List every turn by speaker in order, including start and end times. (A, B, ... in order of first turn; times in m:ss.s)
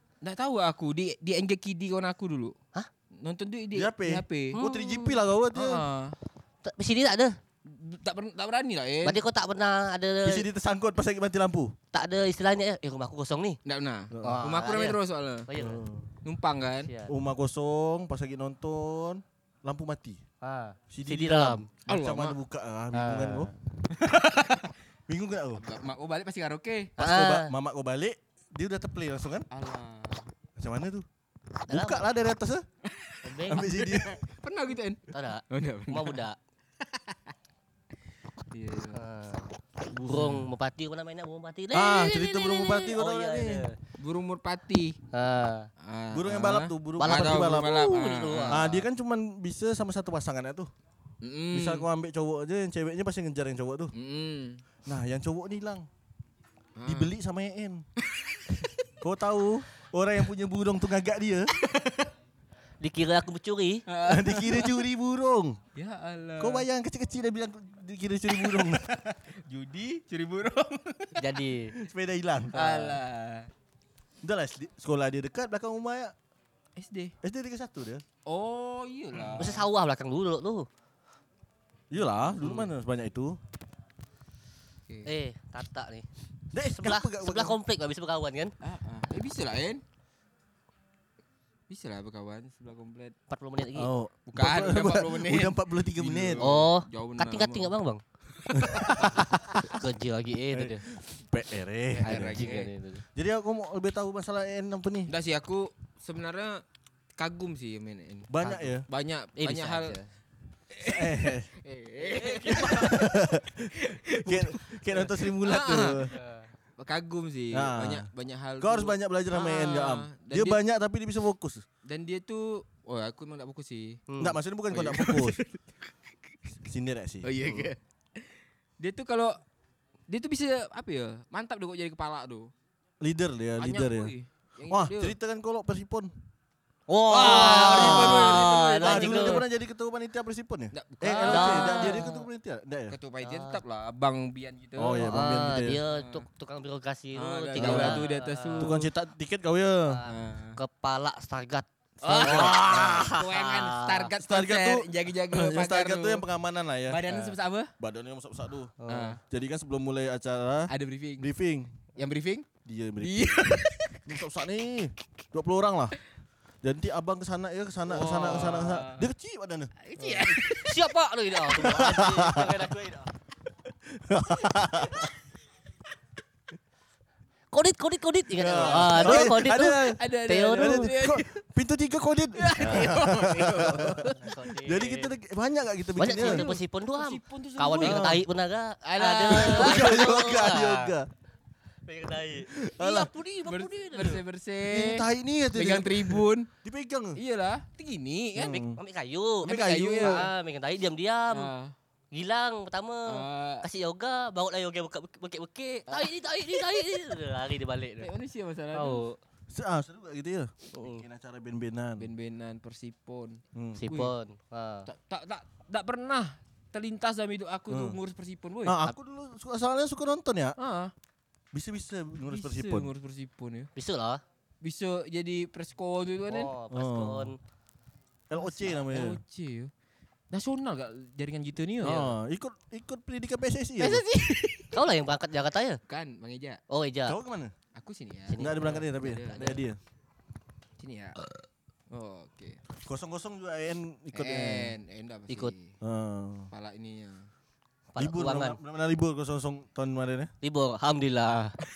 0:00.2-0:02.6 A
0:03.2-0:04.6 A
0:03.7-0:05.8 B
0:04.5-0:05.2 C
0:05.5-0:06.2 A
0:06.6-0:07.4 C
0:07.6-0:09.2 A
0:09.0-0:10.5 C
0:10.2-0:11.8 B
0:11.9-0:13.6 C
0:13.6-0:15.5 A
0:14.1-0:14.4 B
0:14.2-0:15.8 C
0:15.6-0:16.1 B
0:16.2-0:16.9 A
0:16.8-0:17.1 C
0:17.1-0:20.2 B
0:20.4-0:21.7 C
0:20.9-0:23.5 B
0:21.9-0:22.4 A
0:22.9-0:23.5 C
0:23.9-0:24.7 A
0:25.1-0:25.6 B
0:25.6-0:26.9 A
0:27.0-0:27.5 C
0:27.0-0:29.5 B
0:29.5-0:30.3 A
0:30.6-0:31.1 B
0:31.7-0:32.6 B
0:31.7-0:32.1 C
0:32.8-0:36.2 A
0:33.2-0:33.7 C
0:33.5-0:34.1 B
0:35.1-0:36.4 C
0:36.8-0:37.3 A
0:38.5-0:39.0 A
0:38.9-0:43.8 C
0:40.0-0:40.4 B
0:41.7-0:43.7 B
0:44.0-0:45.0 A
0:45.1-0:45.7 C
0:45.8-0:48.8 A
0:46.1-0:50.7 B
0:47.0-0:48.8 C
0:51.2-0:51.9 A
0:51.5-0:53.9 B
0:53.9-0:54.6 A
0:54.8-0:55.9 B
0:56.8-0:57.1 A
0:56.8-0:57.8 B
0:58.0-0:58.8 A
0:59.0-1:01.5 B
1:01.6-1:02.1 A
1:02.8-1:03.8 C
1:03.9-1:04.8 A
1:04.0-1:05.6 B
1:05.8-1:06.7 A
1:06.4-1:09.2 B
1:09.4-1:11.4 A
1:11.2-1:11.8 C
1:11.8-1:13.0 B
1:12.5-1:13.5 A
1:14.2-1:16.1 B
1:16.8-1:17.1 A
1:17.2-1:18.0 B
1:18.3-1:19.6 A
1:19.4-1:20.7 C
1:21.9-1:23.4 B
1:24.9-1:25.1 A
1:25.0-1:26.1 C
1:26.5-1:27.6 B
1:26.7-1:28.5 C
1:28.6-1:29.8 A
1:31.7-1:33.2 A
1:33.3-1:33.9 C
1:33.8-1:36.5 B
1:34.3-1:37.7 A
1:36.4-1:38.0 C
1:38.5-1:39.6 B
1:38.5-1:39.0 A
1:39.6-1:40.9 C
1:40.5-1:42.6 B
1:42.0-1:42.7 A
1:42.0-1:43.0 C
1:43.2-1:45.1 B
1:45.1-1:46.6 A
1:47.2-1:50.0 A
1:48.3-1:48.8 B
1:49.4-1:50.1 C
1:50.7-1:56.1 A
1:50.8-1:51.5 B
1:52.2-1:52.9 C
1:52.4-1:56.2 B
1:56.1-1:56.5 C
1:56.8-2:00.6 A
1:57.5-1:58.1 B
1:58.6-2:01.6 B
2:01.8-2:04.0 A
2:04.1-2:04.4 C
2:04.2-2:05.4 B
2:04.7-2:05.6 A
2:06.6-2:07.7 B
2:07.2-2:08.2 A
2:08.8-2:09.4 A
2:10.1-2:12.5 A
2:13.0-2:14.1 B
2:13.6-2:15.2 A
2:14.7-2:16.1 B
2:16.9-2:19.4 C
2:17.1-2:23.0 B
2:17.1-2:19.4 A
2:20.7-2:22.2 A
2:21.2-2:22.1 C
2:22.9-2:26.3 A
2:23.2-2:23.6 C
2:24.8-2:25.8 B
2:25.0-2:28.8 C
2:27.2-2:28.8 A
2:27.6-2:30.0 B
2:29.9-2:34.1 C
2:30.1-2:30.6 A
2:32.0-2:36.2 A
2:32.1-2:33.2 B
2:34.2-2:37.0 B
2:36.9-2:37.7 A
2:37.1-2:37.4 C
2:37.8-2:41.8 B
2:38.8-2:39.2 C
2:38.9-2:39.2 A
2:40.7-2:41.3 A
2:42.0-2:42.5 A
2:42.6-2:43.5 B
2:43.0-2:44.0 A
2:44.1-2:46.0 B
2:46.6-2:49.7 B
2:47.9-2:49.1 A
2:49.8-2:50.8 A
2:50.0-2:53.1 C
2:51.6-2:52.7 B
2:53.9-2:55.1 B
2:57.5-3:00.9 C
2:58.4-3:00.0 B
2:58.6-3:01.4 A
3:00.5-3:06.4 B
3:02.4-3:04.4 A
3:04.0-3:05.1 C
3:06.0-3:11.0 C
3:06.1-3:08.2 A
3:07.8-3:08.2 B
3:08.8-3:10.0 A
3:09.3-3:11.1 B
3:11.9-3:14.2 C
3:12.5-3:13.1 B
3:12.8-3:16.5 A
3:14.6-3:17.2 B
3:17.2-3:18.6 A
3:18.4-3:18.8 B
3:18.8-3:21.5 C
3:19.4-3:20.3 B
3:19.5-3:20.3 A
3:21.3-3:21.7 A
3:22.1-3:28.1 C
3:23.1-3:23.6 A
3:28.0-3:29.1 A
3:28.7-3:29.2 C
3:29.5-3:32.1 B
3:30.7-3:31.0 C
3:32.0-3:34.1 A
3:33.5-3:33.9 B
3:33.8-3:34.9 C
3:34.9-3:38.8 A
3:37.7-3:38.0 B
3:38.6-3:40.6 B
3:40.6-3:40.9 A
3:41.5-3:42.9 B
3:42.3-3:43.7 A
3:43.8-3:44.2 C
3:44.6-3:46.5 A
3:46.3-3:47.4 C
3:46.7-3:47.3 B
3:48.3-3:49.2 B
3:48.3-3:49.7 A
3:50.3-3:52.2 A
3:51.8-3:54.0 B
3:53.8-3:54.7 A
3:54.7-3:55.8 C
3:55.9-3:56.6 A
3:56.7-3:57.2 C
3:57.1-3:57.5 B
3:57.7-3:59.6 A
3:58.3-3:58.8 C
3:58.4-3:59.8 B
4:00.8-4:01.2 A
4:01.9-4:02.6 A
4:02.8-4:04.8 B
4:04.1-4:05.7 A
4:05.3-4:05.5 C
4:05.8-4:06.5 B
4:06.5-4:07.3 A
4:07.9-4:08.6 C
4:08.0-4:10.3 B
4:10.4-4:11.6 C